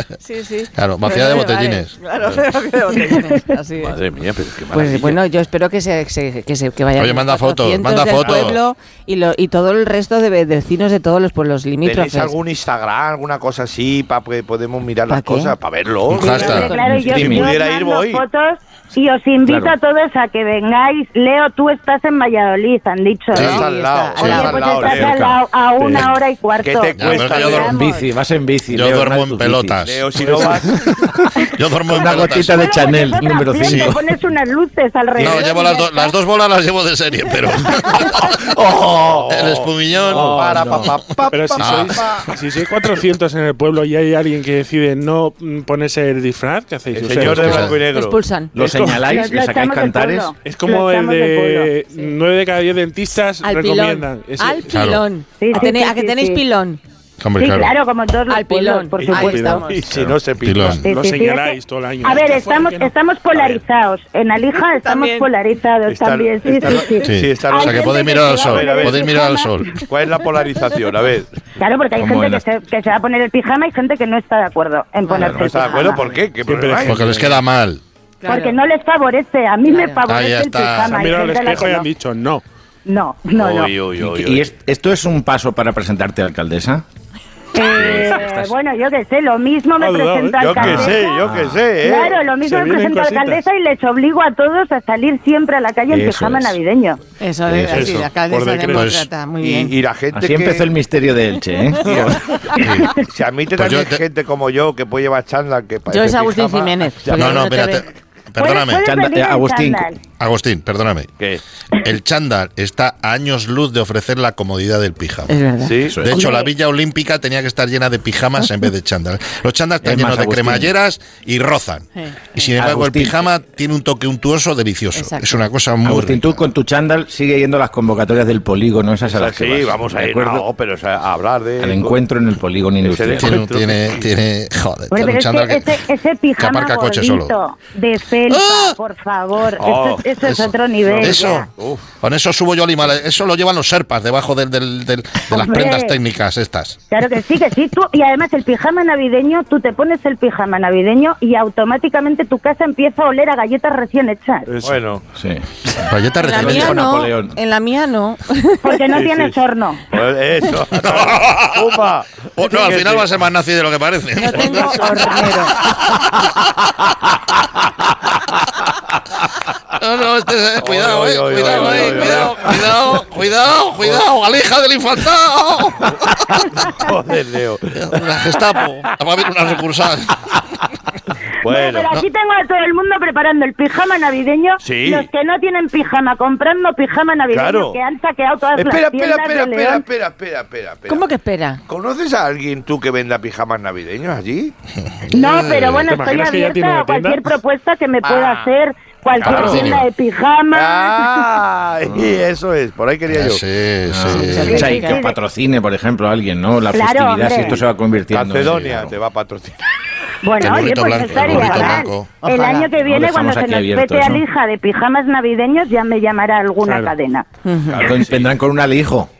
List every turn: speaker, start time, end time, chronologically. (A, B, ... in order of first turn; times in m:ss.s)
0:00.2-0:04.0 A
0:00.8-0:01.9 B
0:03.8-0:05.2 C
0:04.7-0:12.4 A
0:07.0-0:08.6 B
0:08.2-0:08.5 C
0:11.8-0:18.2 C
0:15.1-0:15.6 A
0:16.1-0:16.7 B
0:16.2-0:23.6 D
0:16.4-0:16.8 A
0:16.8-0:17.5 E
0:19.4-0:19.7 E
0:23.3-0:25.2 C
0:23.3-0:23.6 B
0:23.4-0:25.0 A
0:24.2-0:28.0 D
0:24.2-0:25.4 E
0:25.8-0:26.1 F
0:26.6-0:27.8 C
0:27.0-0:27.7 B
0:27.6-0:34.1 E
0:28.7-0:30.0 B
0:29.8-0:30.8 C
0:31.5-0:33.0 B
0:32.4-0:36.1 D
0:35.2-0:38.4 B
0:38.0-0:42.3 C
0:39.3-0:41.0 B
0:40.0-0:47.8 F
0:41.6-0:42.2 B
0:46.9-0:48.2 C
0:47.2-0:47.7 B
0:47.8-0:48.5 A
0:48.5-0:50.3 E
0:48.6-0:49.1 F
0:48.9-0:51.7 D
0:50.4-0:54.7 F
0:53.4-0:56.8 A
0:54.7-0:55.0 B
0:55.4-0:56.4 D
0:57.2-0:57.7 B
0:57.4-0:59.6 D
0:58.3-0:59.8 A
0:59.0-1:00.8 C
0:59.1-0:59.7 F
0:59.9-1:00.8 B
1:00.6-1:03.6 F
1:00.8-1:09.8 D
1:04.5-1:05.3 A
1:05.8-1:09.2 C
1:07.0-1:09.8 B
1:09.8-1:11.3 C
1:11.6-1:16.0 D
1:12.0-1:12.4 E
1:15.1-1:15.4 E
1:15.1-1:17.2 C
1:15.6-1:16.0 A
1:16.4-1:17.4 F
1:16.8-1:17.8 B
1:18.2-1:18.6 A
1:18.2-1:21.9 D
1:19.6-1:20.0 A
1:20.1-1:21.0 B
1:20.8-1:22.4 F
1:22.8-1:23.7 D
1:23.4-1:24.5 C
1:24.0-1:26.8 E
1:27.5-1:31.2 D
1:28.0-1:28.4 E
1:29.8-1:31.0 F
1:30.4-1:32.2 C
1:30.7-1:31.6 E
1:31.8-1:37.0 D
1:32.4-1:33.4 F
1:35.9-1:36.6 E
1:37.2-1:39.8 A
1:37.5-1:37.9 E
1:37.7-1:38.9 F
1:38.7-1:39.1 B
1:39.4-1:40.7 C
1:40.1-1:42.4 E
1:41.8-1:42.2 C
1:42.6-1:43.0 B
1:42.9-1:47.8 C
1:43.6-1:44.0 B
1:45.9-1:47.8 A
1:47.1-1:48.8 B
1:48.4-1:50.0 D
1:48.8-1:49.9 E
1:50.2-1:51.1 B
1:51.7-1:55.3 B
1:55.3-1:56.5 A
1:55.6-1:56.0 C
1:55.9-1:56.2 E
1:55.9-2:06.4 B
1:56.1-1:56.5 D
1:59.8-2:00.7 E
2:02.0-2:02.4 A
2:02.6-2:03.2 E
2:04.9-2:05.4 A
2:05.8-2:10.4 E
2:09.1-2:12.0 C
2:11.6-2:13.4 E
2:12.8-2:14.0 C
2:13.2-2:15.8 B
2:14.9-2:21.5 D
2:16.4-2:17.3 B
2:18.3-2:18.8 B
2:19.6-2:20.1 C
2:20.2-2:21.4 B
2:20.8-2:21.8 C
2:22.0-2:26.8 B
2:25.3-2:26.0 D
2:26.9-2:34.5 D
2:34.5-2:35.1 C
2:35.1-2:37.4 E
2:35.9-2:36.8 B
2:36.2-2:38.9 A
2:38.6-2:39.8 D
2:38.9-2:39.4 C
2:39.9-2:43.1 C
2:40.8-2:41.8 B
2:42.4-2:46.0 B
2:44.1-2:45.6 A
2:44.4-2:45.2 C
2:49.8-2:56.3 B
2:50.6-2:53.0 C
2:55.9-2:58.6 C
2:57.8-3:00.2 B
3:01.4-3:02.0 C
3:01.4-3:09.8 D
3:04.6-3:05.1 C
3:07.3-3:07.8 C
3:08.5-3:11.0 C
3:10.9-3:11.6 A
3:11.7-3:14.5 C
3:14.9-3:15.8 B
3:15.1-3:21.1 D
3:15.4-3:17.3 F
3:18.0-3:18.5 C
3:19.2-3:19.8 C
3:19.3-3:19.8 B
3:20.5-3:23.4 C
3:21.9-3:22.2 E
3:23.1-3:24.6 B
3:23.9-3:28.8 E
3:24.1-3:25.0 A
3:24.4-3:25.2 D
3:26.7-3:27.6 D
3:28.1-3:29.6 C
3:28.4-3:28.9 B
3:30.2-3:37.3 D
3:30.4-3:32.1 B
3:31.1-3:31.4 E
3:31.4-3:32.7 A
3:32.8-3:34.2 E
3:36.6-3:36.9 F
3:37.4-3:37.8 A
3:37.7-3:38.4 C
3:37.8-3:39.1 E